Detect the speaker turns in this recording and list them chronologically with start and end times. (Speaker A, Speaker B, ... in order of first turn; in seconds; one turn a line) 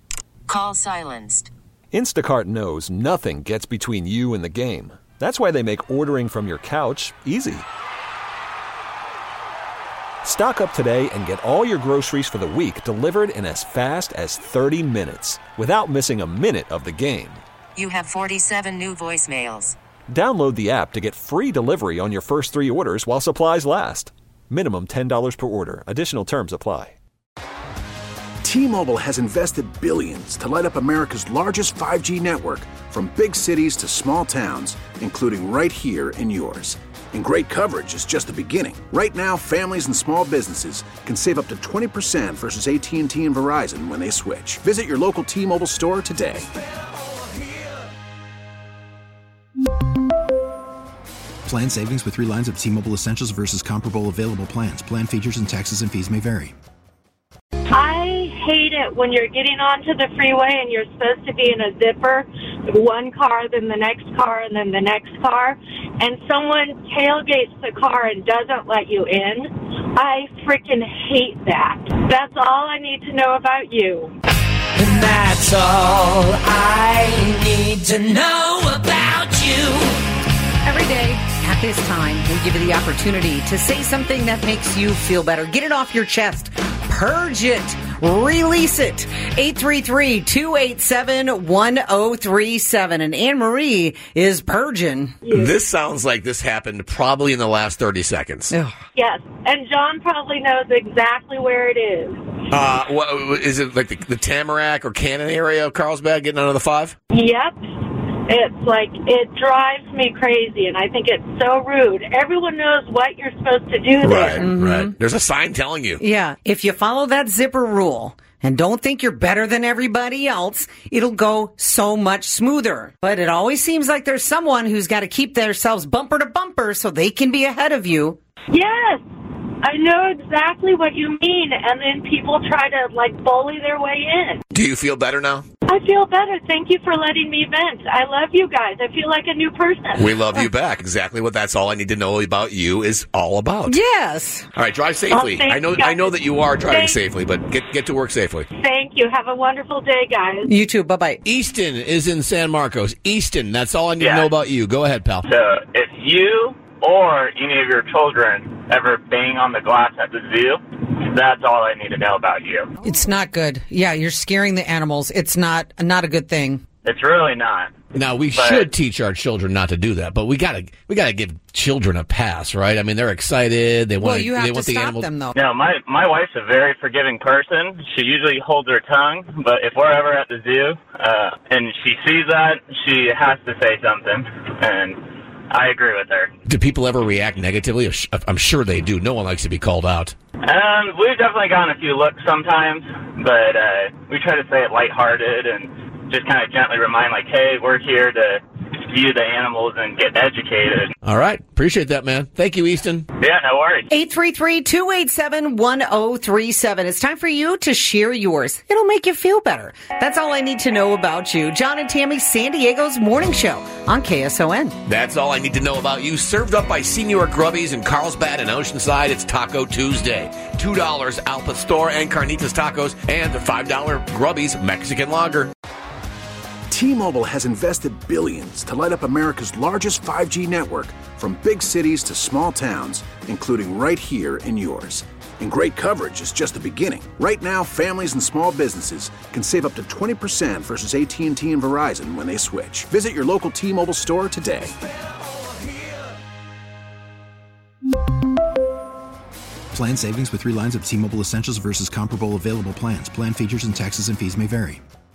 Speaker A: 0.5-1.5
Speaker B: 1.9-7.6
Speaker B: 10.2-17.4
Speaker A: 17.8-19.8
Speaker B: 20.1-26.9
Speaker C: 28.4-46.4
Speaker D: 51.5-56.5
Speaker E: 57.7-74.1
Speaker F: 74.8-79.9
Speaker G: 80.6-95.2
Speaker E: 95.2-95.5
Speaker H: 95.3-98.5
Speaker G: 98.5-98.8
Speaker E: 98.9-102.4
Speaker H: 102.5-106.9
Speaker E: 107.1-114.5
Speaker H: 114.0-116.0
Speaker G: 114.3-114.9
Speaker G: 116.0-128.2
Speaker E: 128.5-129.0
Speaker E: 129.6-134.4
Speaker H: 134.5-135.4
Speaker E: 135.7-140.1
Speaker H: 140.0-143.8
Speaker G: 143.7-144.5
Speaker H: 144.5-148.5
Speaker E: 145.1-146.1
Speaker E: 146.7-147.0
Speaker E: 148.5-150.5
Speaker G: 150.4-151.2
Speaker H: 151.2-155.3
Speaker I: 154.0-154.3
Speaker I: 155.2-162.7
Speaker G: 162.8-166.6
Speaker I: 166.8-167.8
Speaker H: 167.9-175.1
Speaker I: 168.3-168.7
Speaker G: 174.0-175.3
Speaker I: 175.3-186.3
Speaker H: 186.5-190.1
Speaker I: 190.4-200.9
Speaker H: 201.0-203.1
Speaker I: 203.2-203.9
Speaker G: 203.9-214.7
Speaker H: 214.8-225.5
Speaker C: 226.7-244.7
Speaker D: 249.7-254.8